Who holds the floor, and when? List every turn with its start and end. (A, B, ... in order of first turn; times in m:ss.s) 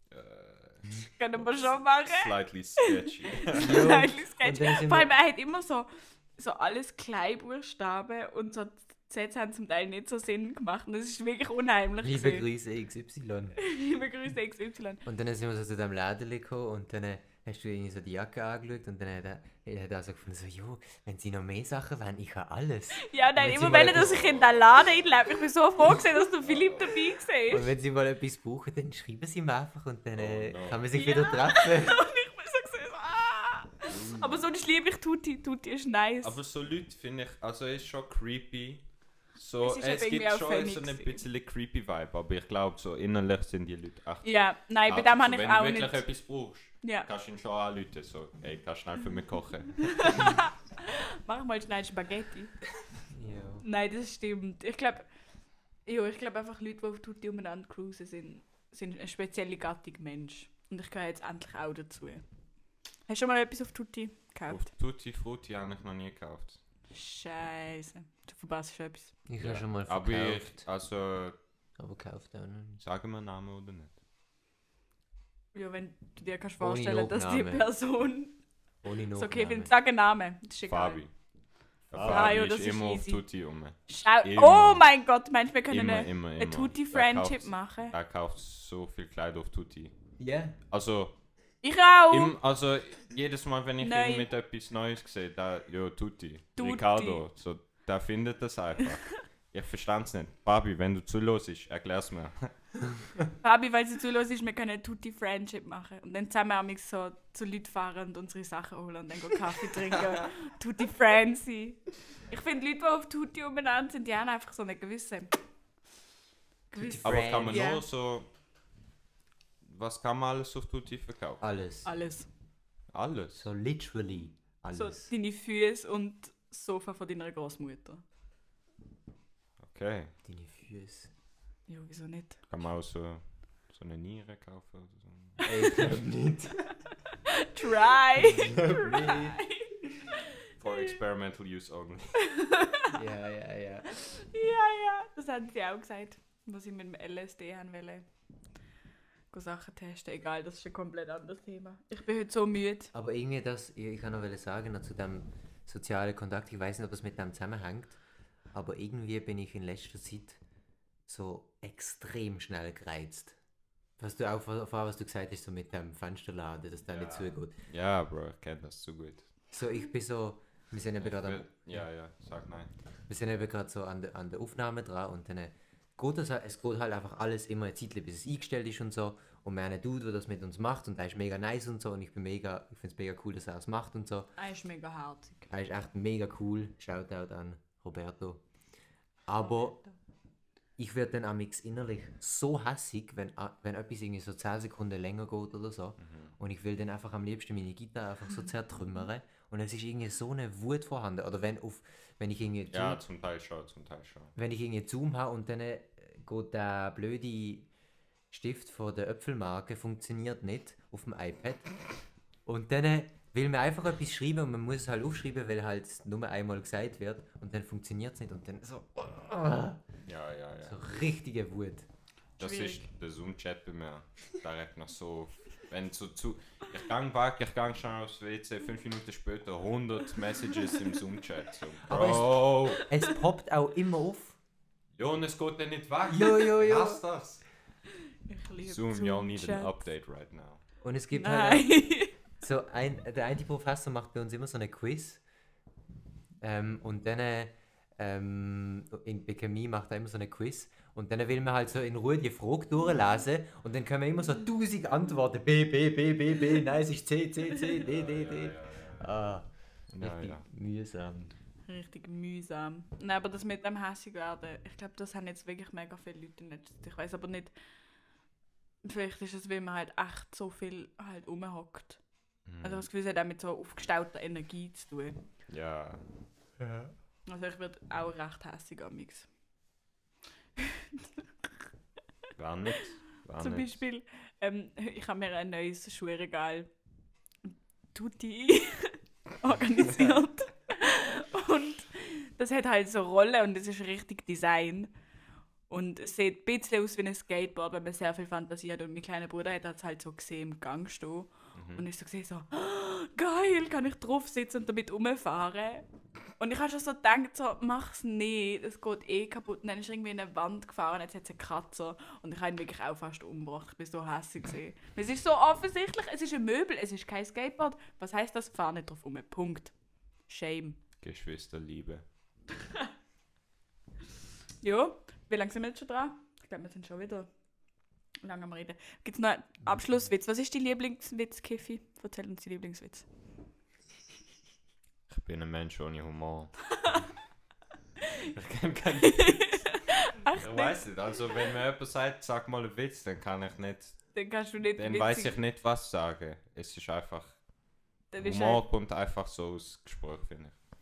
0:00.1-0:03.9 A
0:01.2-0:12.4 B
0:03.6-0:05.1 C
0:12.0-0:13.6 C
0:13.6-0:15.0 B
0:15.0-0:24.3 C
0:23.0-0:27.7 B
0:23.8-0:24.6 A
0:26.4-0:27.1 A
0:27.5-0:32.0 C
0:30.2-0:30.8 A
0:30.9-0:36.4 B
0:33.9-0:34.4 A
0:36.2-0:38.8 A
0:39.4-0:50.3 A
0:39.6-0:41.2 B
0:44.2-0:46.0 B
0:46.8-0:47.1 B
0:49.8-0:52.5 B
0:53.1-0:53.6 C
0:53.6-0:55.1 B
0:55.9-1:02.2 B
1:03.1-1:04.7 B
1:04.5-1:06.6 A
1:06.9-1:09.1 B
1:09.3-1:10.6 C
1:09.4-1:11.4 A
1:11.8-1:12.8 C
1:12.8-1:14.0 A
1:15.5-1:18.4 B
1:16.6-1:17.7 C
1:18.8-1:19.7 C
1:19.2-1:21.0 B
1:20.7-1:21.1 A
1:21.9-1:24.8 A
1:21.9-1:22.3 C
1:22.0-1:23.2 B
1:23.9-1:27.9 B
1:25.7-1:29.9 A
1:30.2-1:30.6 C
1:30.7-1:31.1 A
1:31.6-1:32.3 B
1:32.1-1:43.0 A
1:33.8-1:34.3 B
1:36.6-1:37.2 B
1:43.4-1:55.3 B
1:56.7-1:57.8 B
1:56.7-1:57.8 C
1:57.0-1:58.3 A
1:59.6-2:01.4 A
2:01.4-2:01.9 C
2:01.8-2:02.3 B
2:02.9-2:03.4 A
2:03.4-2:05.1 C
2:04.7-2:08.0 B
2:09.6-2:10.1 A
2:10.2-2:11.1 C
2:11.7-2:12.4 B
2:12.5-2:15.8 A
2:15.4-2:15.9 B
2:15.5-2:16.7 C
2:17.1-2:21.0 B
2:18.2-2:19.4 C
2:20.6-2:22.2 A
2:22.2-2:22.9 B
2:22.9-2:23.9 C
2:23.9-2:28.0 B
2:29.3-2:32.9 B
2:32.9-2:38.0 C
2:38.5-2:40.4 C
2:41.1-2:43.4 C
2:44.0-2:47.5 C
2:46.9-2:49.3 A
2:49.5-2:51.8 C
2:51.0-2:52.7 A
2:53.1-3:04.3 C
3:04.4-3:05.5 B
3:05.5-3:08.4 C
3:09.3-3:09.8 C
3:10.8-3:23.0 C
3:16.0-3:16.3 A
3:22.7-3:24.3 A
3:24.4-3:27.7 C
3:28.3-3:31.7 C
3:32.5-3:39.8 C
3:40.1-3:40.8 A
3:40.7-3:41.9 C
3:42.4-3:52.8 A
3:42.4-3:42.9 B
3:50.6-3:50.8 B
3:51.9-3:54.4 C
3:52.7-3:53.2 B
3:55.0-3:57.4 A
3:56.1-3:57.0 C
3:58.3-3:59.7 B
3:58.6-4:00.6 A
4:00.8-4:01.8 C
4:01.1-4:02.1 B
4:02.4-4:05.2 C
4:06.4-4:19.4 C
4:17.8-4:19.2 A
4:19.9-4:20.4 A
4:20.0-4:21.3 C
4:21.7-4:27.5 B
4:28.8-4:32.0 B
4:32.5-4:32.9 A
4:32.6-4:35.2 B
4:35.5-4:36.0 A
4:36.6-4:36.9 C
4:37.3-4:39.3 B
4:40.6-4:41.0 B
4:42.4-4:43.8 A
4:43.4-4:46.7 B
4:47.5-4:54.9 B
4:55.7-5:05.8 B
5:01.6-5:01.8 A
5:06.4-5:19.7 B
5:20.3-5:20.8 B
5:21.0-5:22.0 A
5:24.6-5:27.3 B
5:28.2-5:33.1 B
5:35.1-5:36.6 A
5:36.8-5:37.1 B
5:38.1-5:39.8 A
5:39.0-5:40.8 B
5:40.3-5:44.0 A
5:44.1-5:45.4 B
5:44.8-5:47.4 A
5:48.1-5:48.6 B
5:48.2-5:50.6 A